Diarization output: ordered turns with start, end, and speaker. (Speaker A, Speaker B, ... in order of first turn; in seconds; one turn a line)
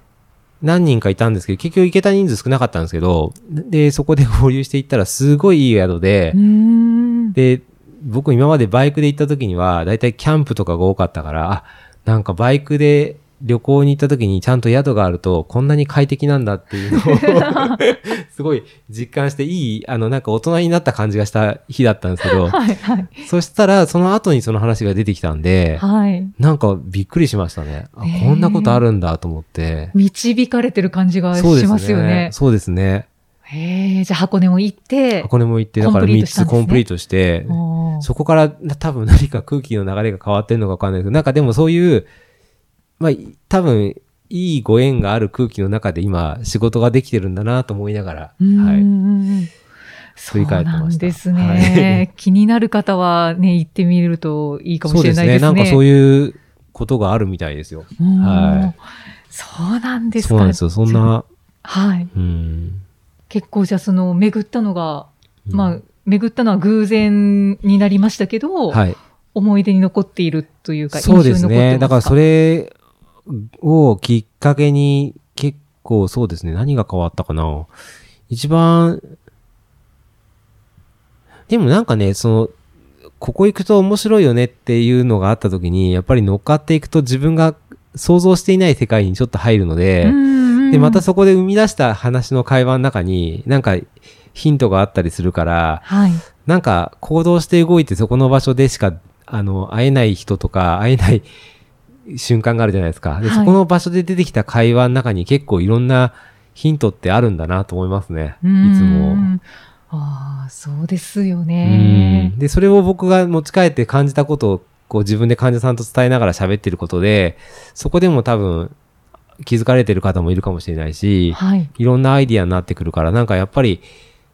Speaker A: 0.6-6.4
Speaker B: 6.3-7.4
Speaker A: 7.3-22.6
Speaker B: 16.9-17.8
Speaker B: 22.2-23.2
Speaker A: 23.2-25.8
Speaker B: 25.8-26.3
Speaker A: 26.4-29.9
Speaker B: 28.0-28.8
Speaker B: 29.9-32.3
Speaker A: 31.3-33.1
Speaker B: 33.5-36.9
Speaker A: 35.2-42.1
Speaker B: 37.5-38.1
Speaker A: 43.0-48.9
Speaker B: 48.4-49.5
Speaker B: 50.2-55.8
Speaker A: 50.3-52.1
Speaker A: 54.9-58.8
Speaker B: 58.0-61.1
Speaker A: 60.2-61.3
Speaker B: 61.6-62.1
Speaker A: 62.1-62.8
Speaker B: 63.3-72.2
Speaker A: 65.5-65.8
Speaker A: 68.7-69.0
Speaker A: 70.9-72.7
Speaker A: 73.3-77.7
Speaker A: 78.3-79.0
Speaker A: 81.5-82.5
Speaker A: 83.2-90.2
Speaker B: 90.0-91.0
Speaker A: 90.7-95.9
Speaker B: 95.8-96.2
Speaker A: 96.4-101.3
Speaker A: 102.1-109.3
Speaker B: 103.2-103.6
Speaker B: 108.4-112.3
Speaker A: 111.6-118.8
Speaker A: 119.4-123.9
Speaker B: 121.3-121.7